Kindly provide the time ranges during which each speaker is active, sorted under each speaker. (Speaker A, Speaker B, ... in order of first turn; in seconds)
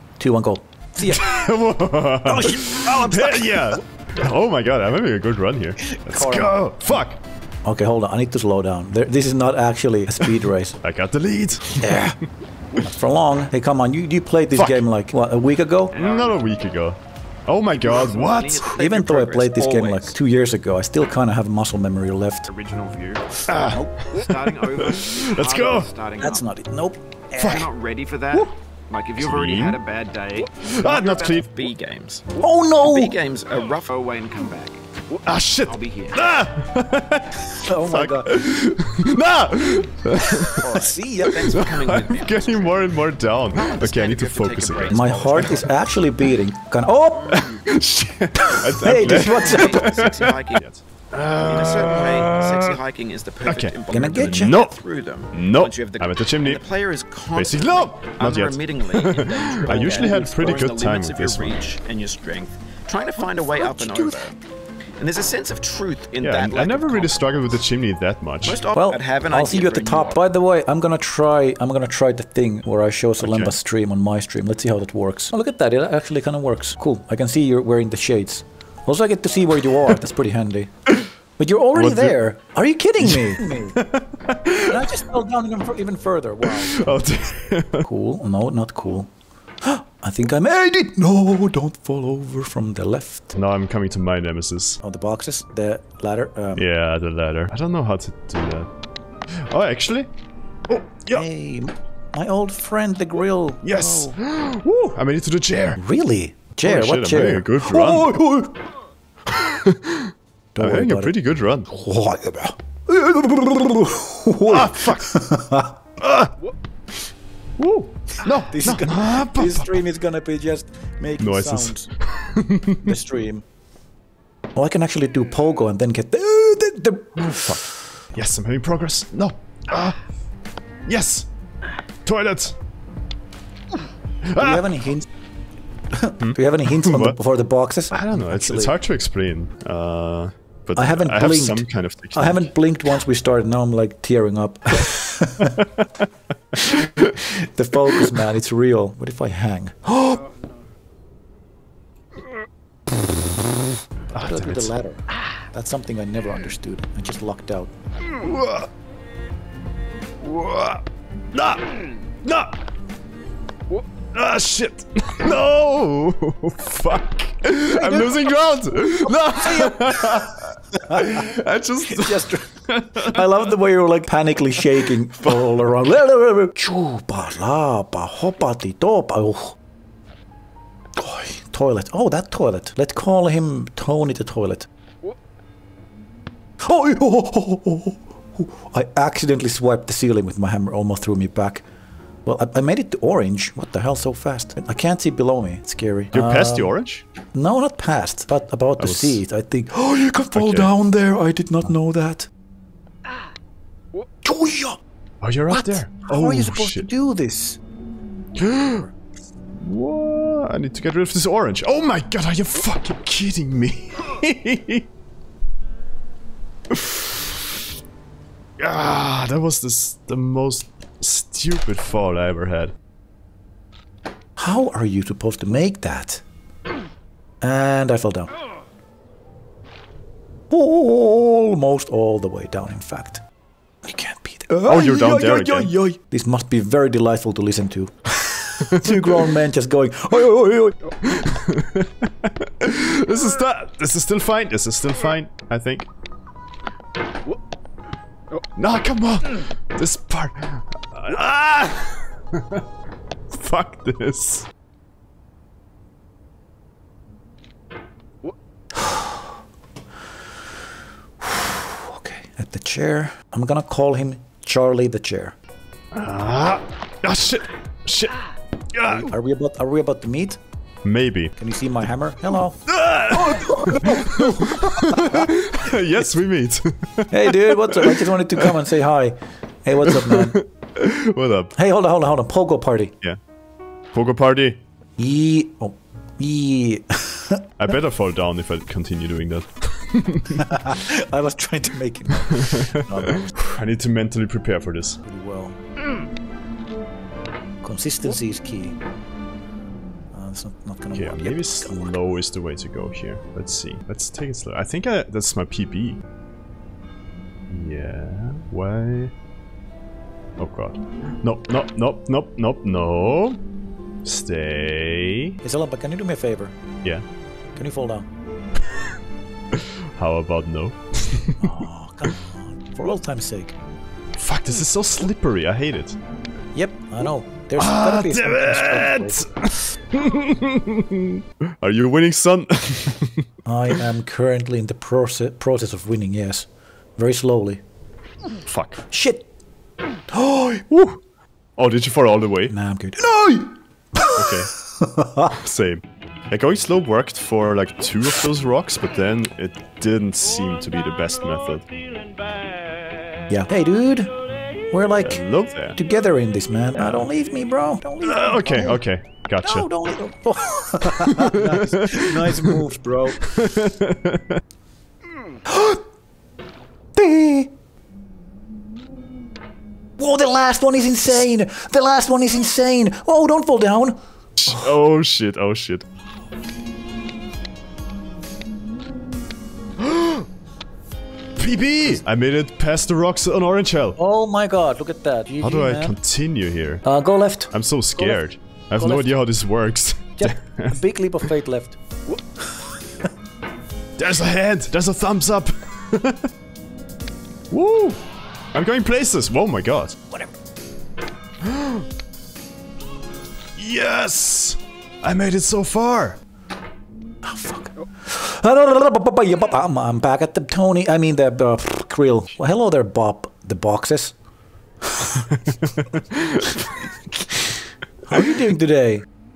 Speaker A: 0.2-1.2, 5.8-6.6, 7.6-10.8, 11.8-12.2, 12.8-15.9, 18.7-22.5, 23.6-23.9, 26.2-27.7, 32.4-33.1, 37.5-38.4, 40.7-41.5, 44.9-47.5, 48.5-49.9, 53.9-54.6, 59.7-60.4, 63.5-64.2, 68.7-80.7, 81.4-83.8, 84.5-86.9, 87.8-89.1, 89.6-93.3, 94.8-96.7, 101.1-104.2, 105.8-108.5, 110.5-111.1, 111.7-115.8, 118.2-121.9, 122.8-123.4, 124.5-127.9, 134.4-135.1, 135.9-138.7, 140.7-145.7, 147.0-149.9, 154.1-157.7, 167.7-168.3, 169.1-171.2, 171.9-179.6, 180.9-184.7, 186.6-191.6, 192.2-196.7, 197.3-202.3, 204.2-204.8, 205.5-207.6, 224.4-226.2, 227.4-228.3, 230.5-233.2, 233.8-240.8, 258.8-259.2, 261.2-265.3, 268.8-270.4, 271.4-272.6, 273.1-275.3, 277.1-280.4, 281.6-282.9, 285.0-287.4, 290.3-293.4, 295.0-295.6, 297.6-298.8, 300.1-301.9, 315.4-316.5, 317.6-318.1, 321.4-323.5, 326.5-329.3, 333.4-337.6, 338.9-339.3, 342.5-345.4, 353.3-354.1, 354.7-358.8, 359.4-363.3, 365.5-365.8, 366.9-367.5, 370.0-373.9, 384.0-385.9, 386.8-388.2, 388.8-389.1, 390.2-391.8, 407.2-414.1, 416.4-417.5, 418.1-419.1
Speaker B: 1.0-7.2, 10.2-12.1, 14.5-14.8, 15.9-18.7, 23.5-25.9, 27.4-27.7, 29.2-29.8, 30.6-31.7, 35.2-40.7, 41.4-45.5, 47.3-52.8, 53.4-54.8, 55.3-56.6, 57.3-61.6, 66.2-68.6, 73.2-73.5, 81.7-82.2, 83.0-85.1, 86.5-87.9, 93.3-94.8, 96.5-98.7, 99.3-100.1, 100.7-101.3, 103.6-105.8, 106.6-108.2, 109.3-111.7, 114.5-115.2, 116.0-116.3, 117.6-119.8, 121.2-123.0, 127.2-130.0, 130.8-131.3, 132.0-132.6, 134.2-134.8, 136.2-137.2, 137.9-142.5, 145.6-145.9, 146.5-147.1, 154.1-154.7, 158.1-158.7, 160.2-162.6, 164.1-173.5, 174.7-175.6, 196.1-197.0, 198.8-199.2, 200.3-200.7, 205.2-206.9, 208.3-208.9, 209.5-214.8, 216.7-217.5, 218.6-222.7, 234.7-235.7, 238.6-239.3, 241.0-245.9, 248.6-252.6, 253.3-254.5, 265.9-268.2, 268.7-269.1, 270.8-271.3, 272.7-278.7, 279.8-281.5, 283.9-284.6, 287.6-290.6, 292.2-295.0, 300.9-306.0, 307.5-309.1, 310.4-313.4, 314.0-315.4, 319.5-322.1, 324.2-326.0, 327.6-333.8, 338.5-338.8, 340.1-341.0, 341.6-342.5, 344.1-344.5, 345.3-351.7, 355.0-355.8, 356.8-357.1, 358.0-359.7, 360.8-362.6, 363.2-364.4, 374.4-375.9, 379.8-380.2, 381.4-384.0, 385.4-386.8, 387.5-390.8, 394.0-396.3, 397.5-399.9, 401.4-401.9, 403.6-406.2, 415.2-416.7
Speaker C: 2.4-3.7, 15.9-16.4, 17.7-20.1, 22.5-23.3, 23.9-26.4, 27.4-32.2, 32.8-34.8, 35.6-36.3, 40.6-43.0, 43.5-45.7, 48.8-50.6, 51.4-64.4, 65.0-67.5, 68.4-70.2